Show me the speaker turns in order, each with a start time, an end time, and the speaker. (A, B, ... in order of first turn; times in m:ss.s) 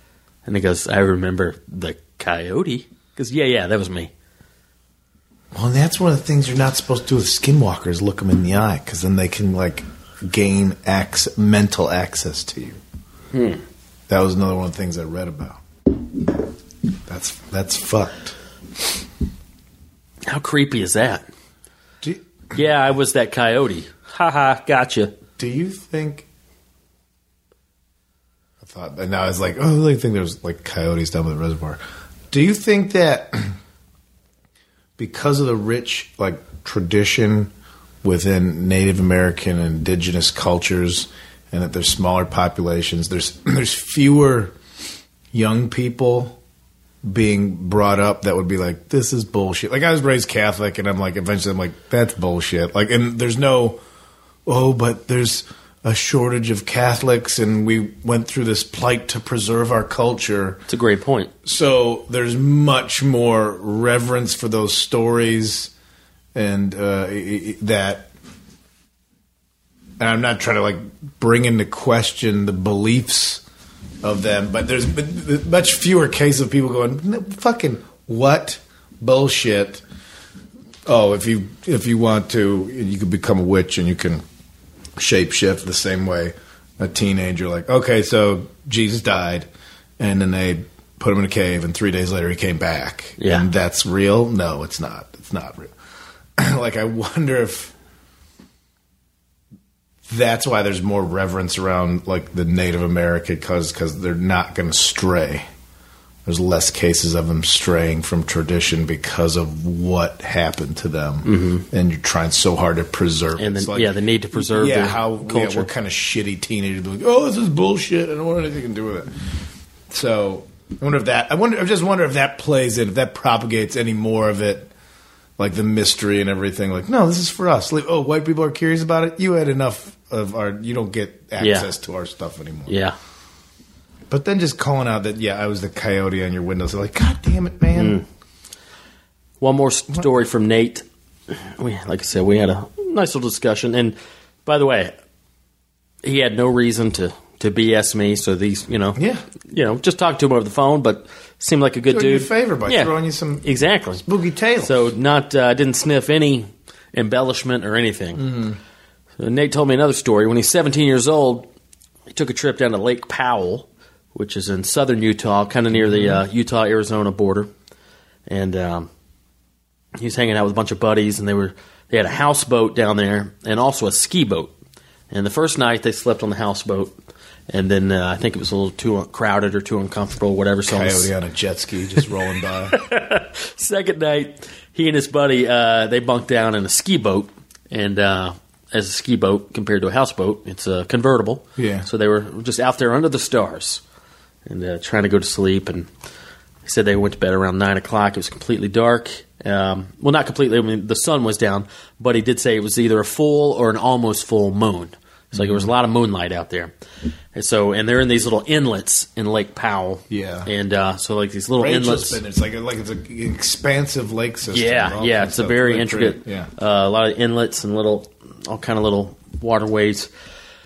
0:00.4-0:04.1 A
0:05.5-0:12.8 B
0:13.3-0:13.6 A
0:14.1-0:16.4 B
0:17.1-0:18.4 B
0:20.3-0:21.2 A
0:22.5-0:25.1 A
0:25.4-0:26.2 B
0:28.6-0:31.8 B
0:32.3-0:33.6 B
0:35.0-0:37.5 B
0:38.0-0:44.6 B
0:45.3-0:46.4 B
0:47.0-0:53.8 B
0:54.4-1:00.6 B
1:00.7-1:01.3 A
1:01.4-1:05.7 B
1:06.3-1:08.1 B
1:10.0-1:13.4 B
1:14.0-1:19.8 B
1:20.8-1:24.2 B
1:25.0-1:35.7 B
1:33.2-1:33.4 A
1:36.4-1:37.7 B
1:40.1-1:45.4 B
1:46.2-2:04.7 B
1:51.2-1:51.6 A
1:53.4-1:55.7 A
2:05.4-2:12.8 B
2:11.4-2:11.7 A
2:12.7-2:13.0 A
2:14.1-2:18.0 B
2:17.7-2:18.0 A
2:19.4-2:25.0 A
2:26.0-2:34.0 A
2:29.0-2:29.2 B
2:31.9-2:33.4 B
2:34.0-2:34.9 B
2:34.6-2:38.2 A
2:38.1-2:38.6 B
2:39.2-2:41.5 A
2:42.1-2:47.5 A
2:45.7-2:46.2 B
2:48.3-2:48.9 A
2:50.0-2:54.5 A
2:55.1-2:56.9 A
2:57.5-3:01.1 A
3:00.7-3:02.8 B
3:02.7-3:13.8 A
3:11.6-3:11.9 B
3:14.5-3:15.9 A
3:16.6-3:26.7 A
3:25.3-3:25.7 B
3:27.3-3:32.2 A
3:30.1-3:30.5 B
3:31.6-3:36.5 B
3:34.5-3:40.1 A